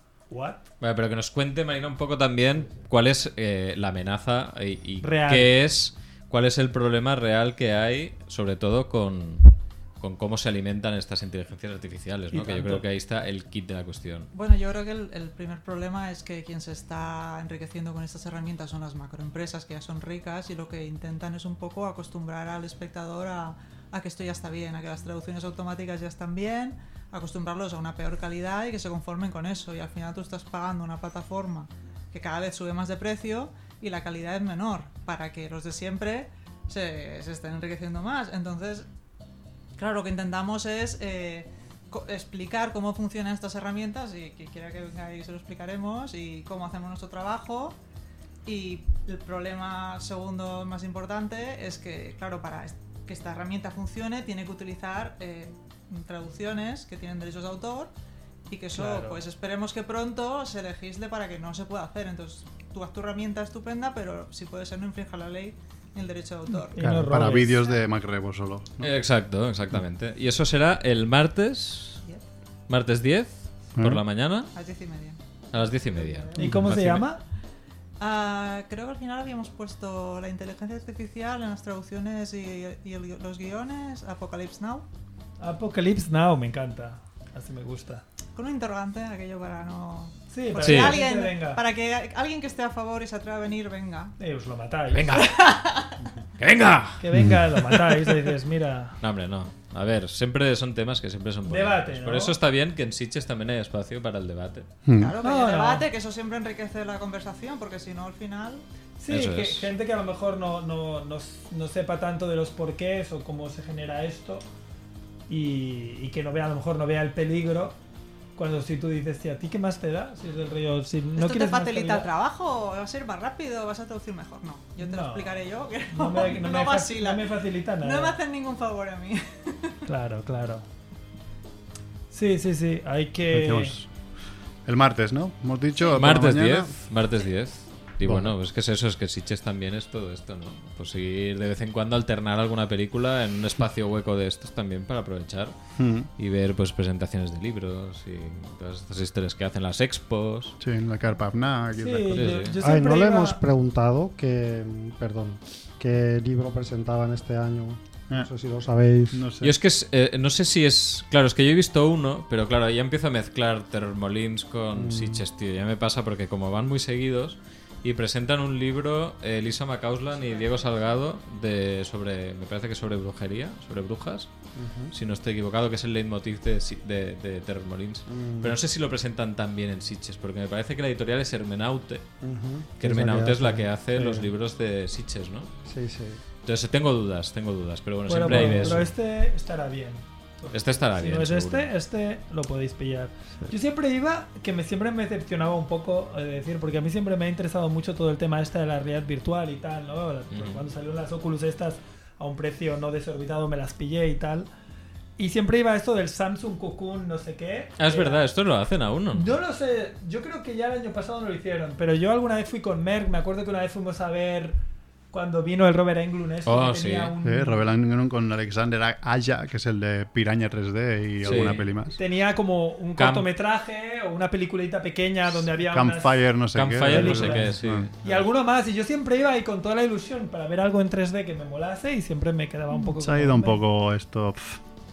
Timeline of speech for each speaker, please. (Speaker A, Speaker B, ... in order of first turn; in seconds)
Speaker A: 0.3-0.7, 5.0-5.5, 12.3-12.8, 58.7-59.2, 66.7-67.7, 76.3-77.2, 85.4-88.0, 90.3-91.6, 94.2-95.2, 97.0-99.0, 101.5-102.4, 105.2-105.8, 109.0-114.4, 115.3-117.8, 118.3-122.1, 124.8-125.4, 125.9-128.2, 129.9-130.6, 132.1-133.7, 151.8-153.4, 188.1-204.5, 205.2-208.2, 209.1-214.6, 215.1-217.6, 222.0-233.6
Speaker B: 0.8-14.3, 68.8-72.0, 72.7-74.5, 75.5-77.0, 90.6-91.0, 94.9-95.6, 96.4-97.0, 97.5-98.1, 99.0-104.7, 109.1-109.7, 135.9-145.5, 146.2-150.6, 152.1-152.6, 159.4-174.3, 174.9-182.0, 182.8-185.5, 186.4-188.9, 190.5-191.7, 200.3-200.6, 207.8-209.3, 216.4-217.1, 221.2-221.7, 223.0-223.3, 226.5-228.1
Speaker C: 14.3-38.9, 39.8-47.8, 48.4-57.9, 58.5-66.9, 74.5-75.2, 75.9-76.5, 78.0-84.8, 88.3-94.1, 95.2-96.0, 105.0-108.6, 121.1-129.8, 170.2-170.6
Speaker D: 66.8-68.9, 97.1-97.4, 104.8-105.2, 133.3-133.9, 134.7-136.7, 138.0-138.3, 145.8-146.1, 150.6-152.4, 159.1-159.5, 217.2-222.0, 225.6-227.9, 233.0-234.6
Speaker E: 152.6-159.2, 164.7-165.2, 174.6-174.9, 178.1-178.6, 182.2-184.3, 185.7-186.2, 188.2-188.8